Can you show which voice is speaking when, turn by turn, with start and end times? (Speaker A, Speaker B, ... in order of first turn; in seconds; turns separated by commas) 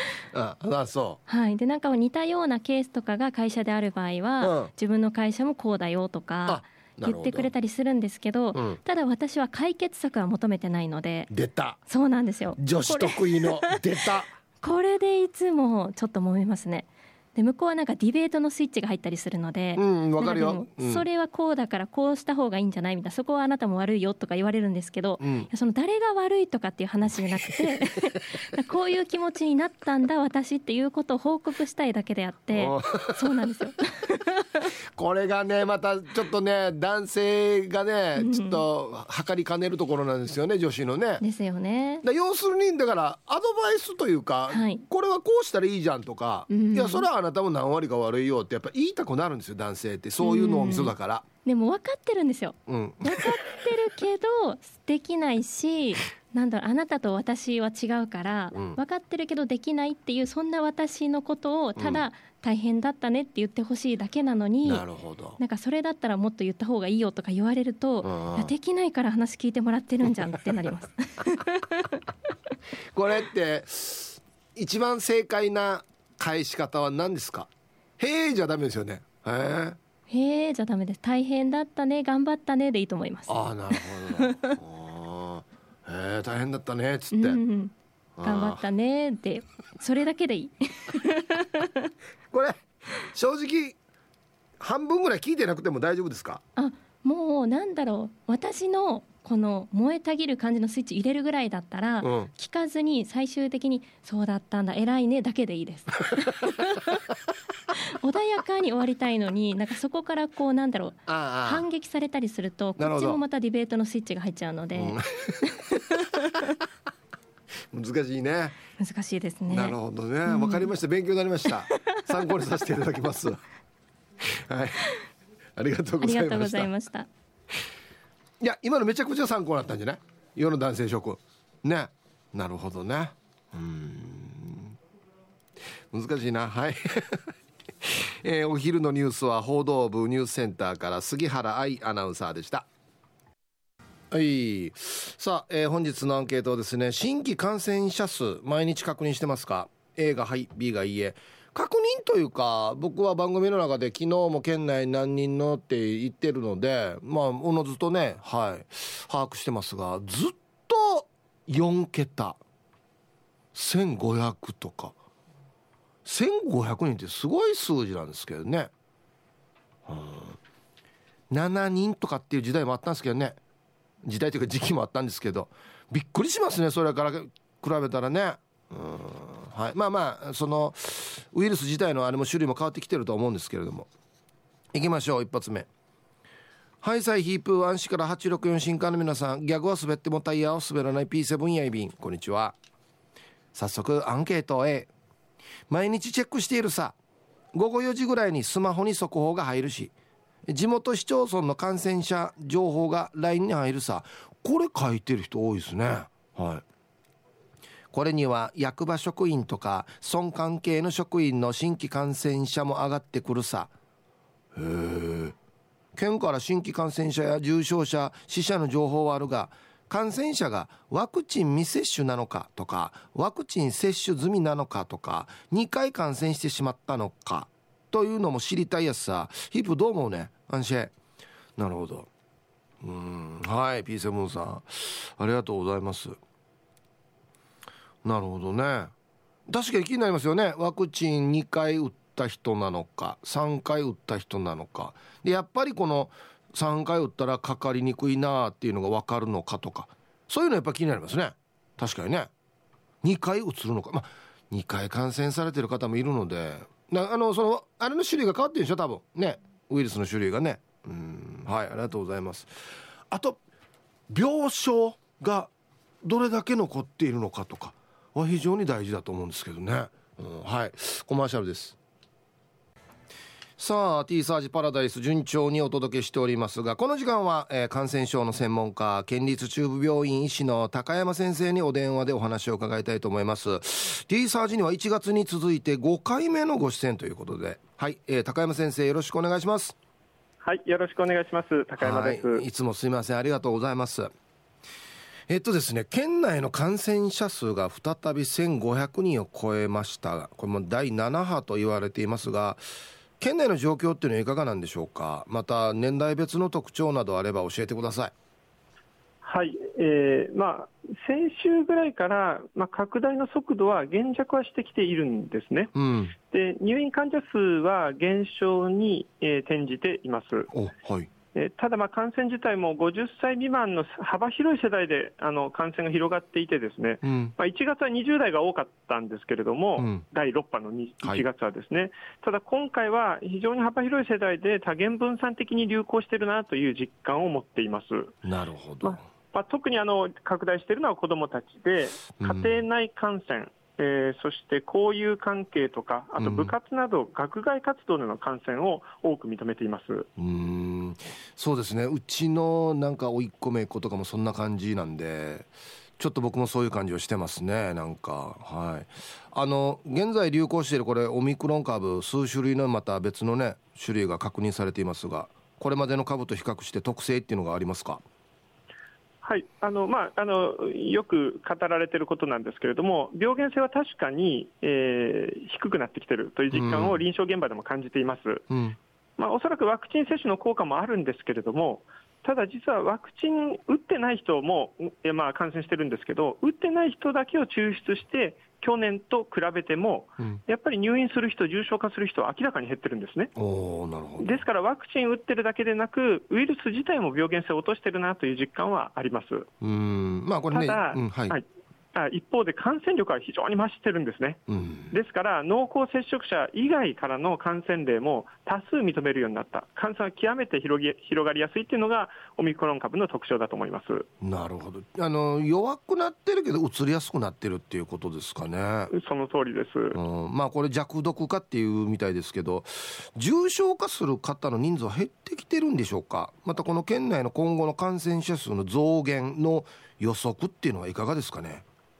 Speaker A: 0.3-1.2, Speaker B: 1.3-11.3, Speaker A: 4.4-4.7, Speaker A: 6.5-7.5, Speaker A: 8.5-8.8, Speaker A: 11.3-11.8, Speaker B: 11.8-14.0, Speaker A: 12.6-14.3, Speaker B: 14.6-34.7, Speaker A: 19.8-21.0, Speaker A: 25.2-25.5, Speaker A: 32.5-33.2, Speaker A: 34.9-41.2, Speaker B: 38.2-38.6, Speaker B: 41.2-42.0, Speaker A: 42.0-51.2, Speaker B: 44.5-44.8, Speaker B: 46.5-47.1, Speaker B: 50.2-50.9, Speaker B: 51.4-64.8, Speaker A: 52.7-53.4, Speaker A: 58.5-58.8, Speaker A: 61.8-62.0, Speaker A: 64.6-65.4, Speaker B: 65.4-72.0, Speaker A: 68.0-68.5, Speaker A: 72.9-79.8, Speaker B: 80.1-84.6, Speaker A: 83.3-87.4, Speaker B: 87.1-91.9, Speaker A: 88.2-88.6, Speaker A: 92.3-93.8, Speaker A: 94.6-96.4, Speaker B: 96.5-107.0, Speaker A: 102.0-102.3, Speaker B: 107.7-116.4, Speaker A: 111.1-111.6, Speaker A: 112.8-113.2, Speaker A: 114.7-115.5, Speaker A: 117.7-118.5, Speaker B: 118.8-120.7, Speaker A: 119.5-123.4, Speaker B: 121.7-122.2, Speaker A: 124.2-124.8, Speaker A: 125.6-126.7, Speaker B: 126.0-127.1, Speaker A: 128.4-134.7, Speaker A: 135.9-142.7, Speaker A: 144.1-162.4, Speaker A: 163.5-164.9, Speaker A: 166.0-168.7, Speaker A: 169.9-170.4, Speaker A: 171.3-173.4, Speaker A: 174.0-183.9, Speaker A: 184.7-185.7, Speaker A: 186.8-192.6, Speaker A: 193.5-194.9, Speaker A: 195.7-196.9, Speaker A: 197.5-199.9, Speaker A: 200.5-206.6, Speaker A: 207.9-213.7, Speaker A: 214.5-215.3, Speaker A: 215.9-230.9, Speaker A: 231.6-232.1, Speaker A: 232.8-236.2, Speaker A: 238.0-238.9, Speaker A: 239.5-252.3, Speaker A: 253.0-263.4, Speaker A: 264.1-265.5, Speaker A: 266.0-271.8, Speaker A: 273.6-289.8, Speaker C: 290.4-292.4, Speaker A: 291.8-294.1, Speaker A: 295.3-302.6, Speaker A: 303.2-308.1, Speaker C: 309.2-315.7, Speaker A: 315.7-316.1, Speaker C: 316.3-320.5, Speaker A: 320.5-321.1, Speaker C: 321.3-338.1, Speaker A: 327.0-327.3, Speaker A: 329.8-330.0, Speaker A: 338.2-339.0, Speaker C: 338.8-350.1, Speaker A: 342.2-342.6, Speaker A: 346.2-346.5, Speaker A: 350.2-368.0, Speaker C: 369.2-378.5, Speaker A: 376.5-377.0, Speaker A: 378.5-378.8, Speaker C: 379.2-393.3, Speaker A: 393.4-394.4, Speaker C: 394.2-399.5, Speaker A: 399.6-401.4, Speaker C: 400.5-414.1, Speaker A: 404.5-404.9, Speaker A: 414.2-418.9, Speaker C: 418.9-420.0, Speaker A: 419.9-431.6